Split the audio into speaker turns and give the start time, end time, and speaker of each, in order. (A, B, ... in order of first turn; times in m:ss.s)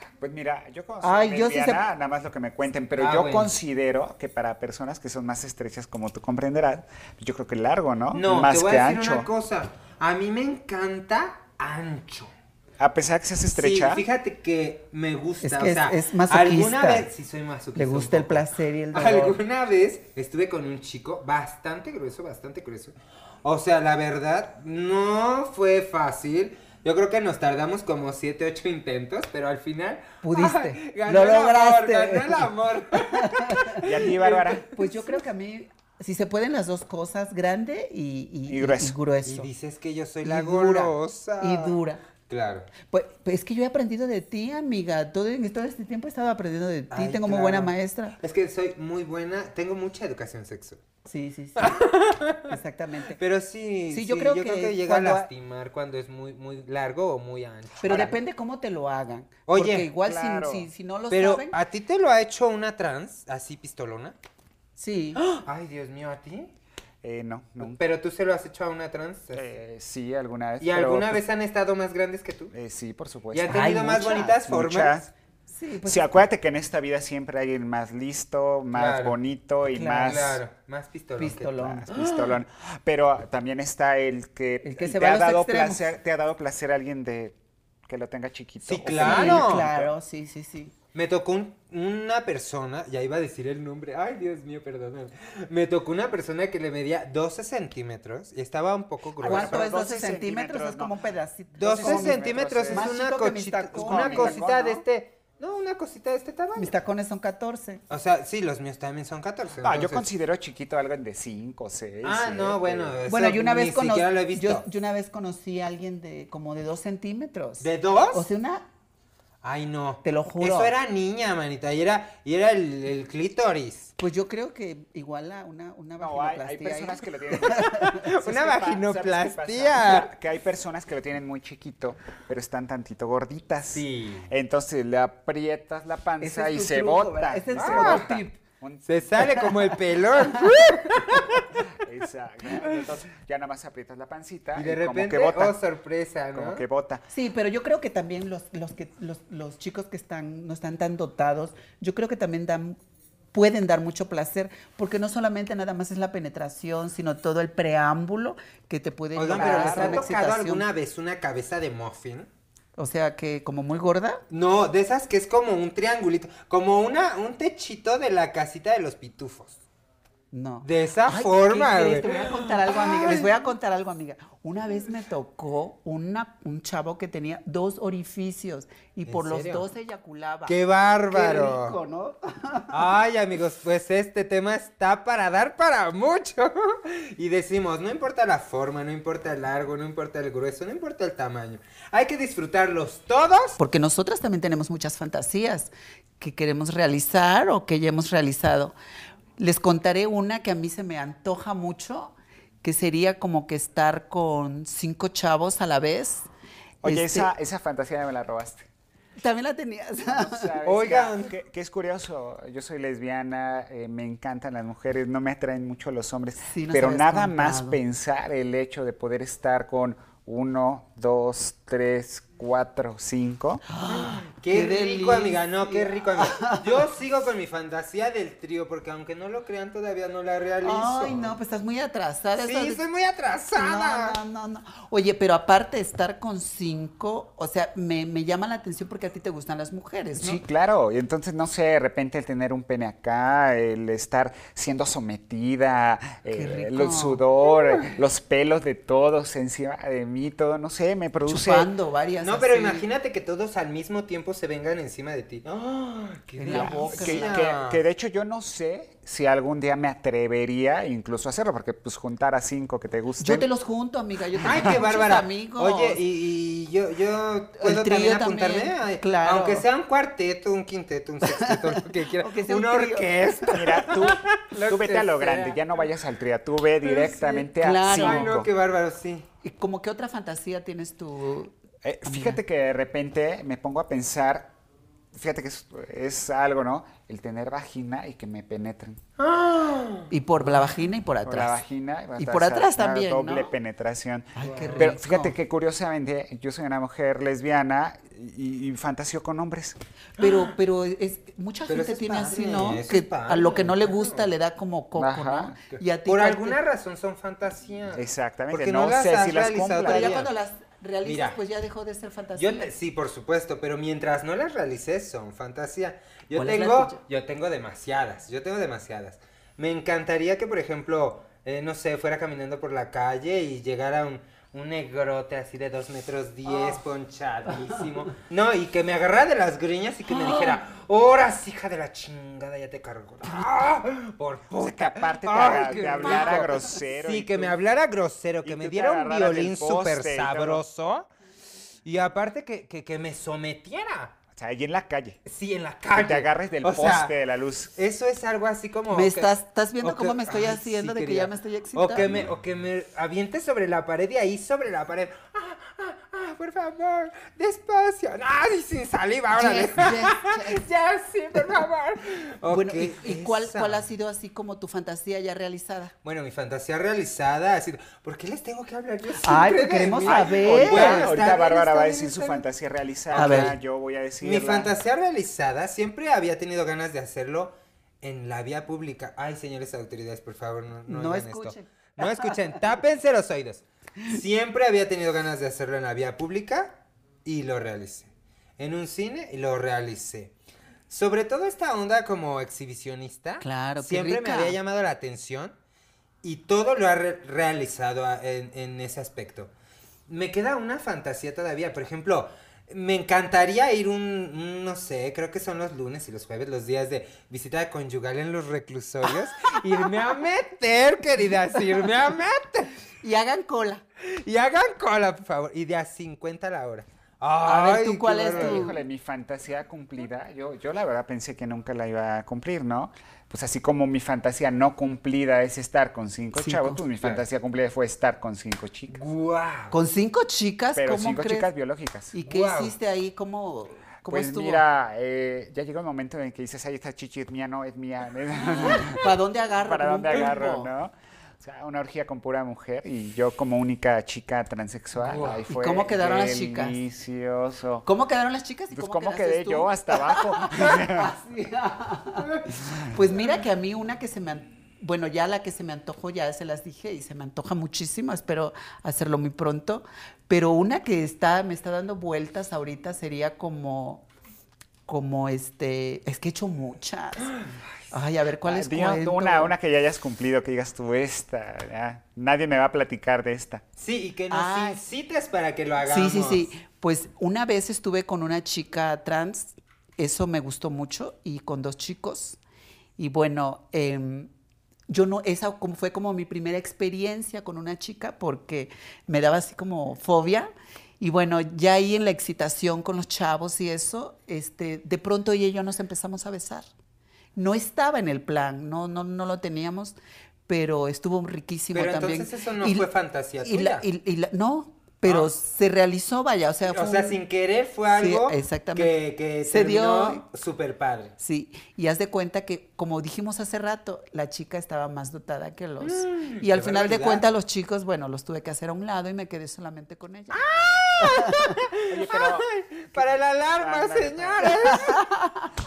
0:00.2-0:09.3 A
0:01.0-0:01.8 B
0:03.0-0:03.6 C
0:08.1-0:12.3 C
0:12.8-0:14.0 A
0:13.5-0:35.1 C
0:15.4-0:17.1 B
0:17.8-0:19.4 B
0:30.2-0:33.8 B
0:33.8-0:34.7 A
0:34.7-0:39.5 B
0:38.5-0:39.0 A
0:39.2-0:42.7 C
0:40.2-0:42.0 B
0:42.9-0:48.2 B
0:46.9-0:50.8 C
0:51.1-0:51.8 B
0:51.6-0:52.5 C
0:52.5-0:53.2 B
0:53.2-0:58.2 C
0:53.9-0:55.3 B
0:57.8-1:01.6 B
0:59.5-0:59.9 C
1:00.0-1:00.7 A
1:01.1-1:04.2 C
1:04.8-1:05.2 B
1:05.2-1:06.5 C
1:07.0-1:07.8 A
1:07.6-1:09.5 C
1:09.3-1:11.2 A
1:10.6-1:12.5 C
1:12.5-1:15.1 A
1:13.3-1:15.0 C
1:13.5-1:14.3 B
1:15.5-1:16.2 B
1:15.8-1:20.4 A
1:18.7-1:19.2 C
1:19.7-1:20.2 B
1:19.9-1:22.4 C
1:21.2-1:21.9 B
1:21.6-1:27.4 A
1:24.6-1:25.9 B
1:27.9-1:29.9 A
1:28.6-1:29.8 C
1:29.0-1:30.7 B
1:30.9-1:39.7 C
1:39.2-1:41.0 A
1:39.2-1:44.4 B
1:41.6-1:46.7 C
1:41.6-1:43.0 A
1:43.8-1:44.8 A
1:46.6-1:47.8 B
1:47.9-1:50.1 C
1:49.6-1:53.0 A
1:52.0-1:54.7 C
1:53.1-1:58.7 B
1:57.6-1:58.3 C
1:59.4-2:03.9 C
2:00.0-2:00.7 B
2:04.0-2:08.1 B
2:06.0-2:19.5 A
2:08.0-2:10.1 C
2:13.7-2:14.3 C
2:16.2-2:18.4 B
2:17.6-2:18.1 C
2:18.9-2:21.5 C
2:21.6-2:25.6 A
2:24.6-2:26.6 C
2:26.3-2:27.0 A
2:27.1-2:32.8 B
2:33.3-2:40.6 B
2:39.2-2:42.3 C
2:39.3-2:40.1 A
2:42.8-2:44.2 B
2:44.3-2:49.6 C
2:50.3-3:00.6 B
2:50.6-2:53.5 C
2:59.1-2:59.7 C
3:00.5-3:01.8 C
3:01.1-3:02.8 B
3:02.7-3:13.6 C
3:13.6-3:18.8 B
3:19.4-3:26.3 B
3:26.8-3:28.7 A
3:26.8-3:27.3 B
3:29.2-3:30.6 B
3:30.0-3:43.6 A
3:30.6-3:31.3 C
3:36.4-3:37.8 B
3:43.7-3:46.8 B
3:43.9-3:51.4 C
3:50.6-3:52.8 B
3:52.4-3:54.2 C
3:53.6-4:00.4 B
4:00.2-4:11.7 A
4:06.3-4:07.2 B
4:11.3-4:12.9 B
4:12.2-4:17.8 C
4:16.4-4:17.4 B
4:16.5-4:23.5 A
4:23.2-4:26.0 B
4:24.4-4:35.8 C
4:27.6-4:29.7 B
4:31.3-4:33.6 B
4:33.5-4:38.5 A
4:36.8-4:39.3 C
4:37.5-4:38.4 B
4:39.4-4:41.5 B
4:41.8-4:44.5 A
4:42.0-4:42.4 B
4:45.1-4:49.0 A
4:49.2-4:50.1 C
4:50.1-4:51.6 B
4:51.2-4:59.8 A
4:52.2-4:53.5 B
4:54.4-4:55.4 B
4:54.4-4:54.9 C
5:00.2-5:06.6 B
5:00.2-5:00.5 C
5:01.7-5:04.3 C
5:05.0-5:05.6 A
5:05.7-5:10.3 C
5:07.9-5:10.2 A
5:09.8-5:12.7 B
5:11.0-5:11.4 C
5:12.4-5:41.1 C
5:16.3-5:17.0 B
5:30.2-5:30.6 B
5:34.6-5:37.6 A
5:36.0-5:36.4 B
5:38.4-5:40.6 A
5:41.8-5:44.2 C
5:44.3-5:45.2 A
5:45.3-5:47.2 C
5:45.9-5:47.7 A
5:47.8-6:03.9 C
5:48.9-5:52.1 B
5:59.3-6:00.6 B
6:02.5-6:05.9 B
6:06.0-6:12.4 C
6:09.2-6:11.1 B
6:10.0-6:14.7 A
6:13.1-6:13.6 C
6:13.2-6:13.5 B
6:14.2-6:30.3 C
6:20.9-6:22.4 B
6:30.9-6:35.6 C
6:33.4-6:34.6 B
6:36.2-6:39.5 C
6:40.1-6:52.7 C
6:53.0-6:53.8 B
6:54.0-6:58.7 C
6:57.4-6:58.8 B
6:58.3-7:09.0 A
7:06.4-7:06.8 B
7:08.9-7:09.8 C
7:09.7-7:11.5 B
7:10.8-7:12.2 A
7:12.1-7:14.6 B
7:12.3-7:12.8 C
7:14.1-7:19.1 A
7:18.6-7:20.7 B
7:19.6-7:27.9 A
7:25.0-7:25.4 C
7:25.5-7:26.8 B
7:27.8-7:44.0 B
7:28.7-7:31.2 A
7:44.9-7:47.4 B
7:47.3-7:47.6 C
7:47.9-7:49.6 B
7:48.4-7:53.6 A
7:53.8-7:56.5 C
7:54.3-7:54.8 B
7:55.8-8:02.4 B
8:03.0-8:04.3 B
8:04.9-8:16.7 B
8:17.4-8:22.9 B
8:21.7-8:23.9 C
8:23.4-8:27.2 B
8:25.0-8:25.3 C
8:26.7-8:31.1 C
8:27.9-8:30.2 B
8:31.2-8:40.4 B
8:35.8-8:37.2 C
8:40.3-8:45.0 C
8:41.0-8:41.6 B
8:41.9-8:44.7 A
8:44.7-8:45.5 B